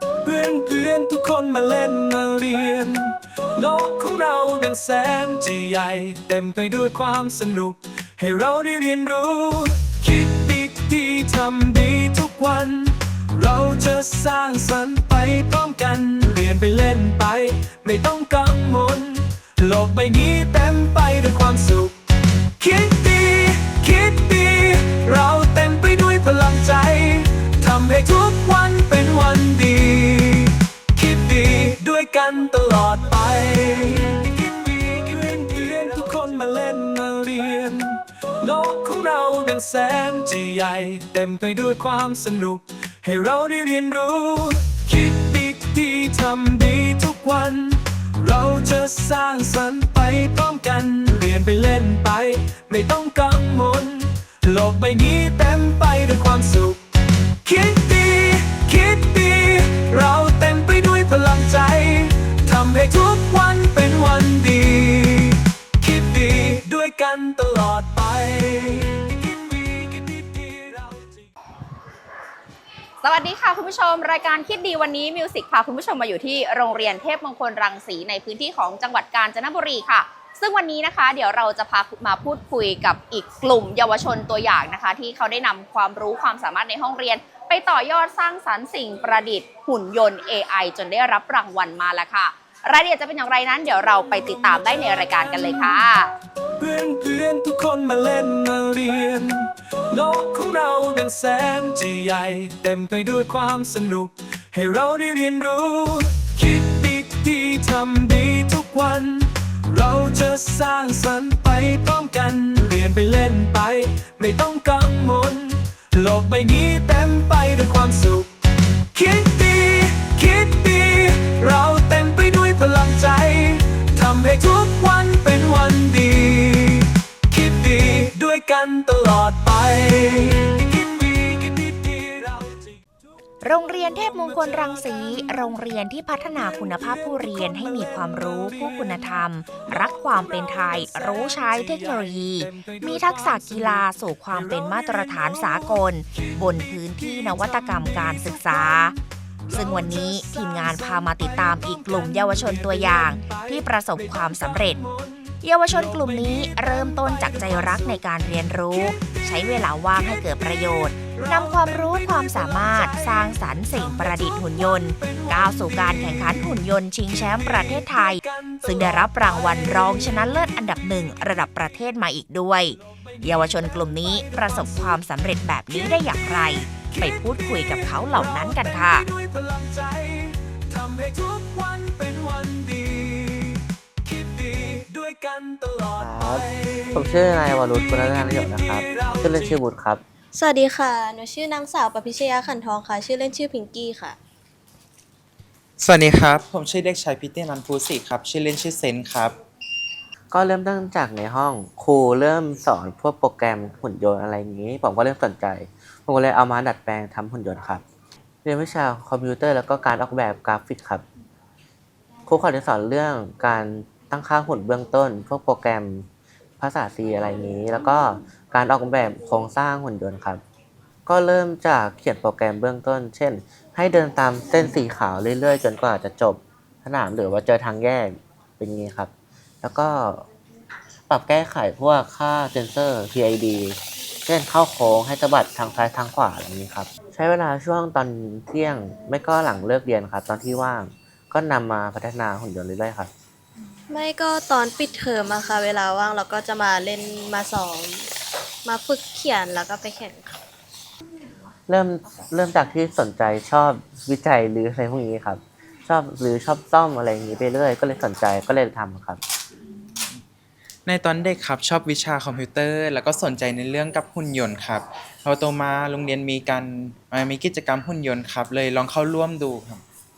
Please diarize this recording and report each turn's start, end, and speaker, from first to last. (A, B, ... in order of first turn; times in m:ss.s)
0:00.2-0:22.0 A
0:22.6-0:56.8 A
0:57.4-1:11.3 A
1:13.0-1:36.1 B
1:36.6-1:58.3 A
1:58.9-2:12.8 A
2:13.4-2:29.0 C
2:14.0-2:15.2 A
2:16.7-2:29.0 A
2:29.5-2:46.5 A
2:29.5-2:34.8 C
2:35.4-2:59.1 C
2:47.4-2:50.4 A
2:52.8-2:55.1 A
2:55.7-3:07.1 A
3:06.0-3:10.0 D
3:07.7-3:09.6 A
3:10.3-3:14.2 E
3:15.8-3:19.4 F
3:20.3-3:27.8 D
3:28.4-3:31.0 D
3:32.3-3:36.1 D
3:36.6-3:40.4 D
3:41.1-3:49.1 D
3:49.6-3:50.3 D
3:51.1-4:03.1 D
4:03.9-4:08.1 E
4:08.6-4:10.4 E
4:11.7-4:19.2 D
4:20.9-4:29.8 F